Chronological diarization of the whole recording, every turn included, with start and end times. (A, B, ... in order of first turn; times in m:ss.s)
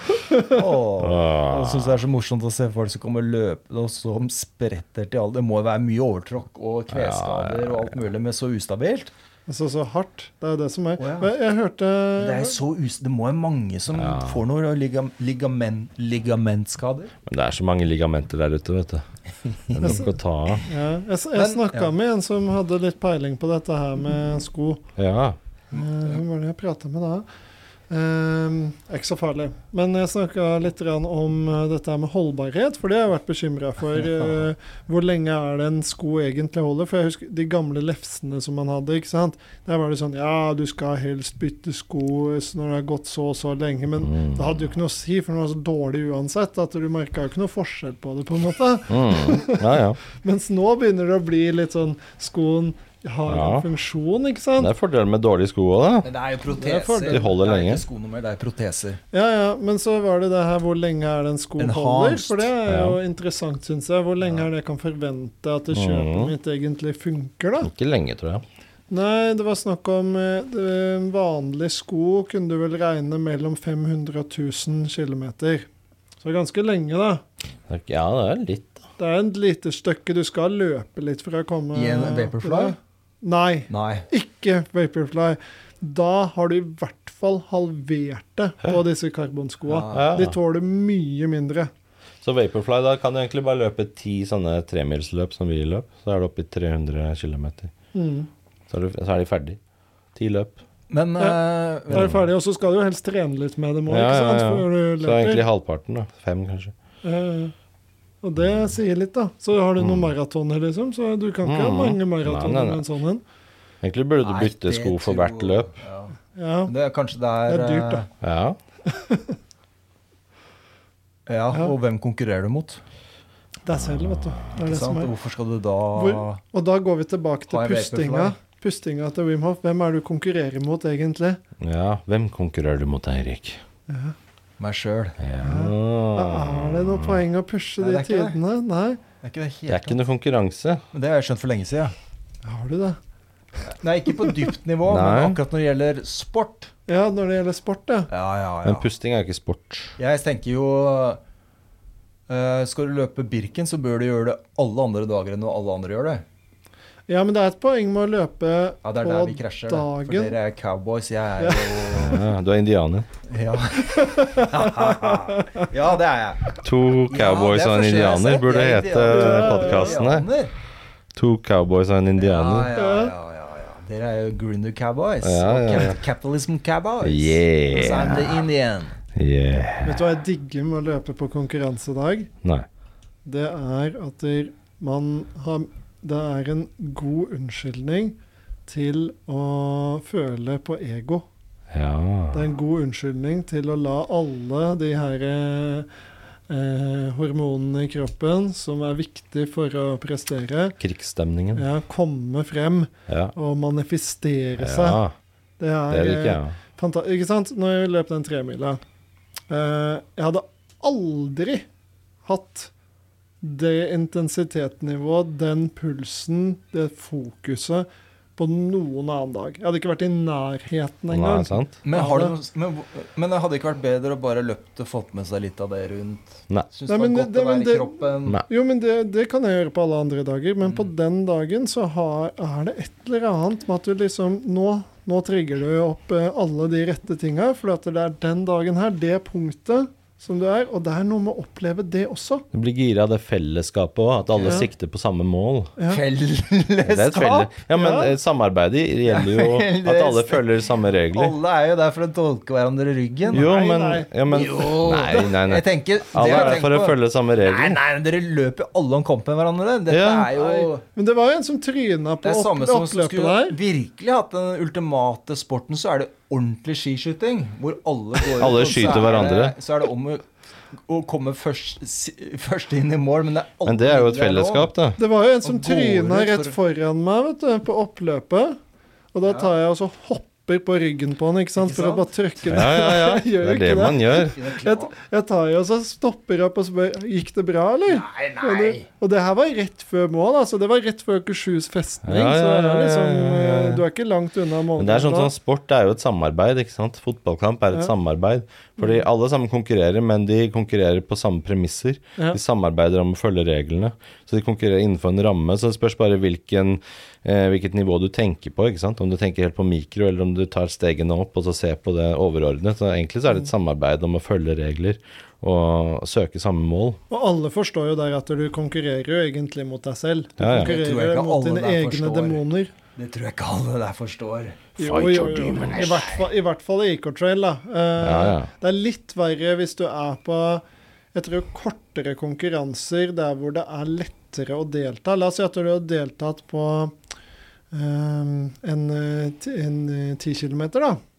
0:00.4-0:09.1 A
0:01.0-0:02.0 B
0:06.9-0:07.9 B
0:09.5-0:12.6 C
0:11.0-0:11.3 A
0:12.2-0:17.1 A
0:13.9-0:14.4 B
0:17.2-0:19.0 B
0:19.6-0:20.0 A
0:19.7-0:20.6 B
0:19.8-0:20.1 C
0:20.6-0:24.8 C
0:21.3-0:21.9 A
0:25.0-0:25.4 B
0:25.7-0:26.2 A
0:25.7-0:27.2 C
0:27.9-0:54.7 C
0:44.0-0:44.6 B
0:48.9-0:50.0 B
0:53.3-0:53.7 B
0:54.6-0:56.1 B
0:56.0-0:59.0 A
0:56.6-0:57.3 C
0:57.1-0:57.8 B
0:59.1-1:07.7 C
1:01.6-1:02.5 A
1:02.7-1:03.0 B
1:05.7-1:06.3 B
1:07.6-1:08.4 B
1:08.9-1:15.7 C
1:16.2-1:17.2 C
1:17.7-1:18.8 B
1:19.0-1:31.7 C
1:21.7-1:22.7 A
1:23.7-1:24.1 A
1:29.7-1:30.1 A
1:29.9-1:30.4 B
1:32.2-1:37.7 B
1:37.9-1:38.3 C
1:38.7-1:39.6 B
1:40.1-1:40.6 B
1:40.9-1:42.2 A
1:41.9-1:45.4 C
1:43.9-1:46.7 B
1:47.0-1:47.5 C
1:48.2-1:53.2 C
1:49.8-1:50.1 B
1:51.4-1:52.8 B
1:53.8-1:55.7 B
1:54.2-1:58.1 A
1:56.4-1:56.7 C
1:57.5-1:58.0 C
1:58.2-1:58.6 B
1:58.9-1:59.4 C
2:01.3-2:02.8 A
2:03.6-2:05.1 C
2:03.8-2:04.5 B
2:04.6-2:06.4 A
2:06.0-2:11.4 C
2:07.5-2:08.3 A
2:11.6-2:13.6 B
2:13.9-2:14.2 C
2:14.6-2:15.2 A
2:15.2-2:17.2 B
2:15.4-2:19.0 C
2:17.8-2:18.4 A
2:19.2-2:20.0 A
2:19.7-2:20.8 B
2:20.9-2:21.9 A
2:22.4-2:23.0 C
2:23.8-2:26.7 A
2:24.8-2:25.4 B
2:26.9-2:28.1 C
2:28.1-2:28.9 A
2:28.6-2:29.9 B
2:30.0-2:31.2 A
2:32.3-2:36.2 A
2:37.1-2:40.4 C
2:38.8-2:42.2 A
2:41.4-2:42.2 C
2:41.9-2:43.1 B
2:43.3-2:46.5 A
2:43.9-2:45.7 C
2:46.6-2:50.2 B
2:47.1-2:50.5 A
2:49.0-2:50.0 C
2:51.1-2:52.7 B
2:52.2-2:59.0 A
2:52.7-2:53.1 C
2:55.2-2:56.0 B
2:57.0-2:58.4 B
2:59.1-3:00.0 B
2:59.8-3:02.3 C
3:03.2-3:08.2 C
3:08.7-3:11.2 C
3:11.7-3:12.4 B
3:12.3-3:15.9 C
3:16.5-3:20.8 C
3:20.8-3:21.6 B
3:21.5-3:25.0 C
3:23.1-3:23.3 B
3:24.6-3:25.1 B
3:25.6-3:28.8 C
3:25.9-3:26.5 B
3:29.5-3:31.6 C
3:32.2-3:32.7 C
3:33.4-3:42.3 C
3:41.1-3:41.7 B
3:41.8-3:48.4 A
3:46.9-4:02.4 C
4:02.5-4:05.7 B
4:04.3-4:04.6 A
4:05.8-4:06.0 C
4:05.9-4:07.5 A
4:06.8-4:11.3 B
4:07.7-4:08.1 C
4:09.1-4:10.5 A
4:11.1-4:13.4 A
4:13.3-4:15.3 C
4:13.3-4:17.8 B
4:14.3-4:20.8 A
4:16.2-4:16.5 C
4:19.9-4:20.3 B
4:20.3-4:23.6 C
4:22.2-4:30.3 A
4:28.3-4:29.6 B
4:30.9-4:34.7 A
4:33.6-4:35.0 B
4:35.0-4:38.6 C
4:35.4-4:36.6 A
4:39.1-4:55.3 C
4:39.2-4:39.5 A
4:41.6-4:42.1 A
4:42.5-4:44.4 B
4:44.3-4:44.9 A
4:47.9-4:48.9 A
4:52.0-4:53.8 B
4:54.8-5:17.0 B
5:17.1-5:22.7 C
5:20.4-5:20.8 B
5:20.5-5:22.4 A
5:23.0-5:24.6 A
5:24.8-5:26.0 B
5:24.8-5:30.6 C
5:25.7-5:26.3 A
5:28.0-5:28.5 B
5:31.1-5:36.9 C
5:37.7-5:41.0 C